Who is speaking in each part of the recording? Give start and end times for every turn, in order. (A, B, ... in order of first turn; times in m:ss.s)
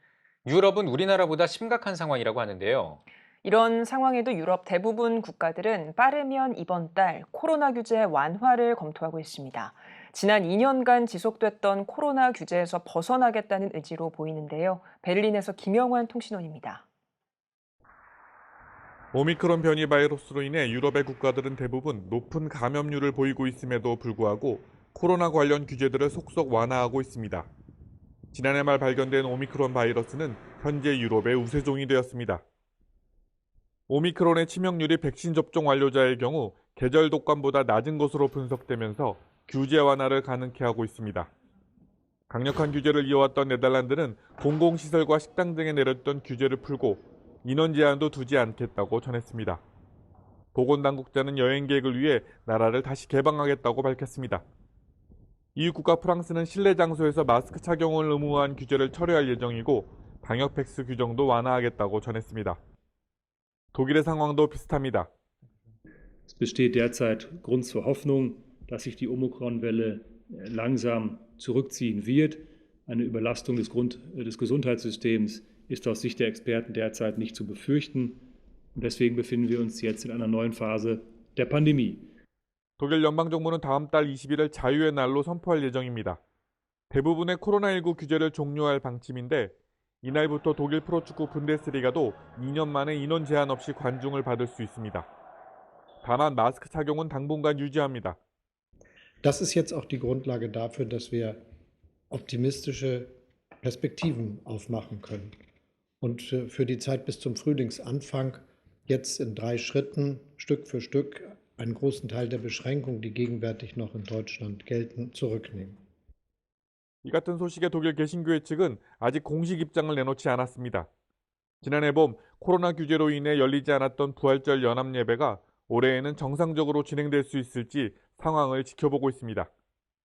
0:00.4-0:03.0 A
0:03.4-0:16.8 B
0:19.1-0:27.5 C
0:28.3-0:32.4 C
0:33.9-0:41.3 C
0:42.3-0:49.6 C
0:50.5-0:54.4 C
0:55.6-1:02.6 C
1:03.7-1:05.1 C
1:06.3-1:22.1 D
1:22.8-1:26.2 C
1:26.9-1:35.1 C
1:36.0-1:38.2 C
1:39.2-1:41.4 E
1:42.1-1:45.3 E
1:46.0-1:55.8 E
1:57.0-2:00.9 C
2:01.6-2:09.5 C